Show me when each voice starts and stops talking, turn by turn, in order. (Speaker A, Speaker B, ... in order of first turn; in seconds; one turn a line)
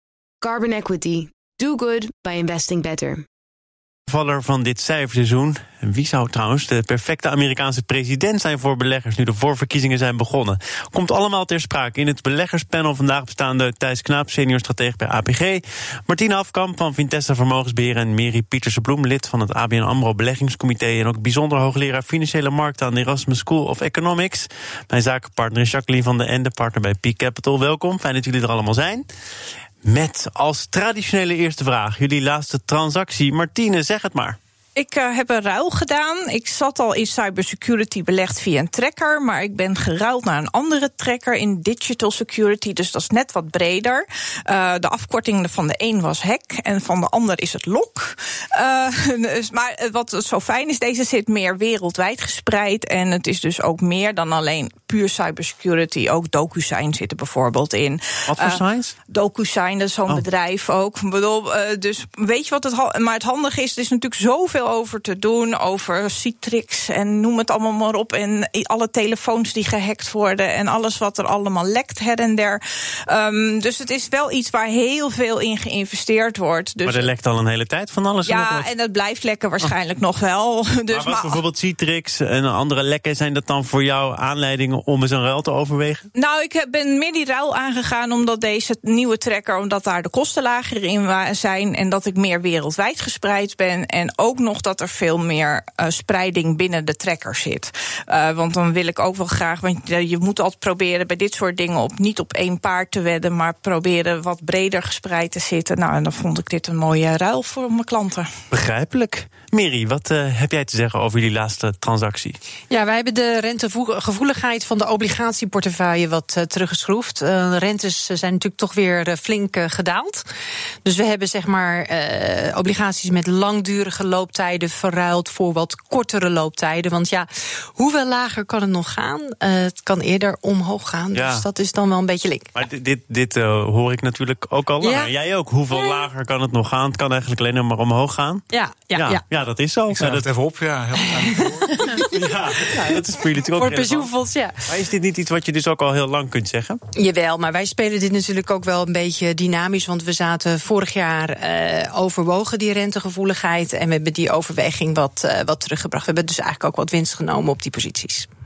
Speaker A: 0.4-3.3
Speaker B: 4.1-29.1
Speaker B: 29.8-34.4
Speaker C: 34.8-77.1
Speaker B: 58.3-58.9
Speaker B: 76.8-78.7
Speaker C: 78.2-81.4
Speaker B: 80.9-86.1
Speaker C: 86.1-108.3
Speaker B: 108.5-112.4
Speaker D: 112.7-120.2
Speaker D: 120.8-132.5
Speaker B: 131.1-131.4
Speaker B: 132.5-140.2
Speaker D: 134.8-135.1
Speaker D: 135.7-136.0
Speaker D: 138.5-139.2
Speaker E: 139.9-142.1
Speaker D: 141.1-142.1
Speaker B: 142.0-144.1
Speaker D: 142.7-143.0
Speaker D: 143.5-144.6
Speaker B: 144.6-146.8
Speaker D: 146.9-158.3